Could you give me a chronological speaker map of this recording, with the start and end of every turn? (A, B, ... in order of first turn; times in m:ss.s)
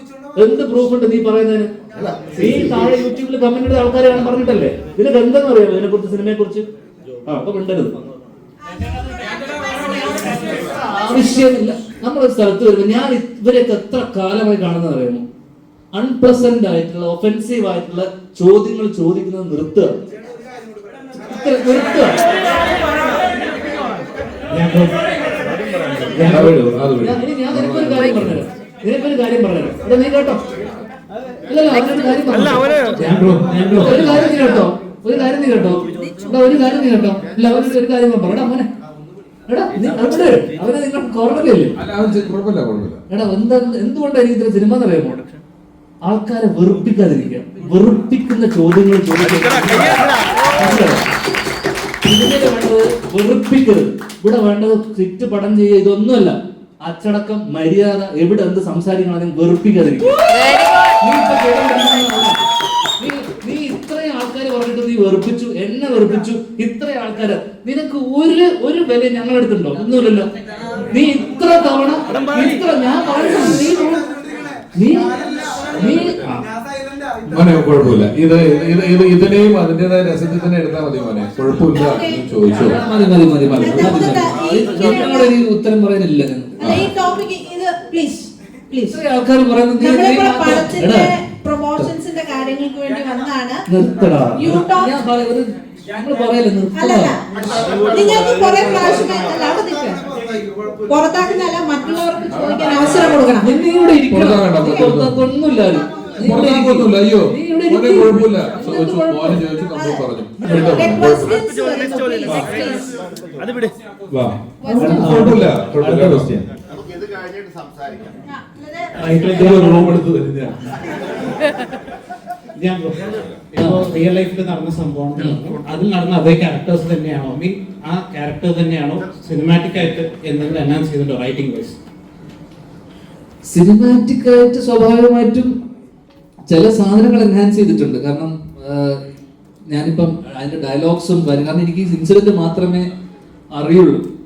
0:00.4-0:01.7 A
0:02.3-0:06.7 A
0:07.2-0:07.9 A
0:08.6-0:11.5 B
0:10.6-0:15.2 A
0:15.9-0:20.0 A
0:21.1-0:22.2 A
0:24.5-0:25.1 C
0:26.1-0:26.6 C
0:26.3-0:28.4 D
0:27.0-0:30.4 A
0:31.5-0:32.7 A
0:33.0-0:34.4 C
0:33.8-0:38.7 A
0:39.5-0:41.8 A
0:41.8-0:43.0 D
0:43.1-0:45.3 A
0:46.0-0:50.0 A
0:50.6-0:51.0 A
0:52.0-1:00.2 A
1:01.0-1:02.4 A
1:03.0-1:10.3 A
1:10.9-1:14.1 A
1:14.8-1:15.1 A
1:15.7-1:16.4 A
1:17.3-1:22.8 D
1:21.7-1:22.2 B
1:22.5-1:26.8 A
1:23.5-1:25.3 B
1:26.6-1:29.0 B
1:28.9-1:31.1 A
1:29.8-1:33.6 B
1:33.7-1:37.2 A
1:34.4-1:35.0 B
1:36.8-1:40.0 B
1:40.8-1:43.5 B
1:42.4-1:43.2 D
1:43.4-1:49.4 A
1:44.1-1:45.2 D
1:44.6-1:44.9 B
1:46.2-1:51.4 D
1:49.7-1:52.9 B
1:54.1-1:56.4 D
1:54.6-1:55.2 B
1:54.7-1:56.3 C
1:58.2-1:59.5 B
1:59.0-2:00.4 C
1:59.6-2:00.5 D
2:02.6-2:11.8 C
2:03.6-2:03.8 A
2:13.5-2:15.5 A
2:16.5-2:19.0 A
2:19.7-2:22.9 A
2:23.5-2:24.0 A